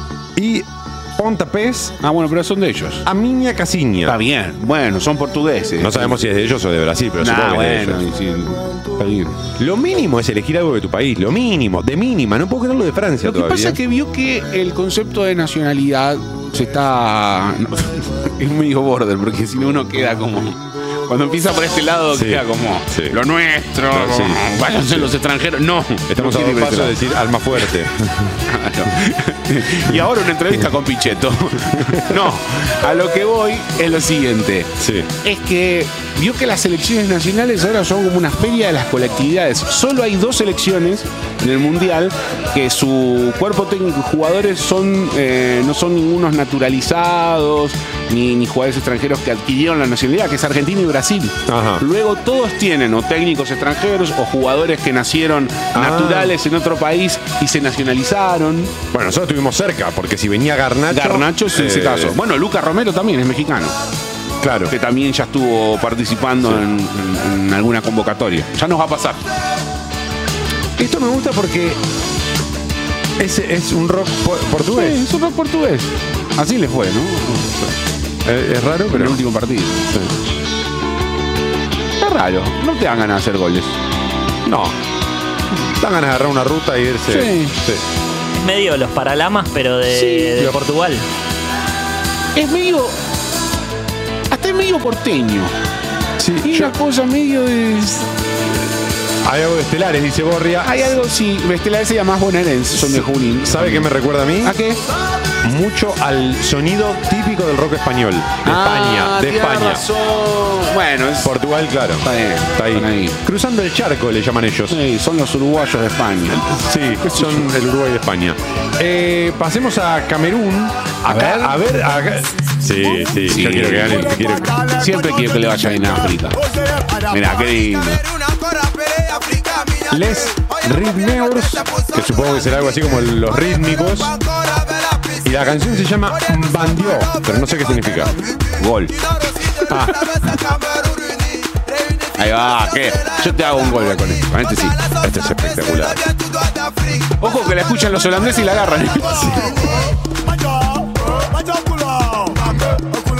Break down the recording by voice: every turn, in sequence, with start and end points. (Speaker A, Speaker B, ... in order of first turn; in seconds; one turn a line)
Speaker A: 0.3-1.9
Speaker B: 2.0-3.1
Speaker A: 3.0-4.2
Speaker B: 4.0-6.2
Speaker A: 5.8-8.0
Speaker B: 7.2-9.4
Speaker A: 9.6-13.8
Speaker B: 13.2-27.0
Speaker A: 22.1-23.2
Speaker A: 23.9-25.1
Speaker A: 26.1-28.4
Speaker B: 28.4-58.8
Speaker A: 31.7-32.3
Speaker A: 34.8-35.1
Speaker A: 51.5-51.8
Speaker A: 55.7-56.4
Speaker A: 58.9-62.2
Speaker B: 60.9-63.8
Speaker A: 64.4-64.7
Speaker B: 64.7-69.2
Speaker A: 70.8-71.8
Speaker A: 73.2-75.0
Speaker B: 74.7-77.8
Speaker A: 78.2-79.2
Speaker B: 78.9-79.9
Speaker A: 79.9-80.2
Speaker B: 82.0-83.7
Speaker A: 84.4-84.8
Speaker A: 85.6-87.8
Speaker B: 87.1-87.5
Speaker C: 88.3-91.0
Speaker B: 89.9-90.5
Speaker B: 92.3-93.0
Speaker B: 94.3-95.5
Speaker A: 96.2-96.7
Speaker B: 96.4-98.1
Speaker A: 99.2-101.0
Speaker B: 100.6-104.8
Speaker A: 102.8-104.6
Speaker A: 105.4-109.8
Speaker B: 108.4-111.3
Speaker A: 111.2-114.8
Speaker B: 112.0-113.2
Speaker B: 114.7-117.5
Speaker A: 116.5-124.7
Speaker B: 121.1-121.6
Speaker B: 123.2-126.4
Speaker B: 127.1-128.0
Speaker A: 129.9-134.2
Speaker A: 135.2-138.2
Speaker B: 138.6-139.0
Speaker A: 139.7-140.3
Speaker B: 142.2-144.8
Speaker A: 145.0-146.0
Speaker B: 147.2-149.3
Speaker A: 149.2-149.6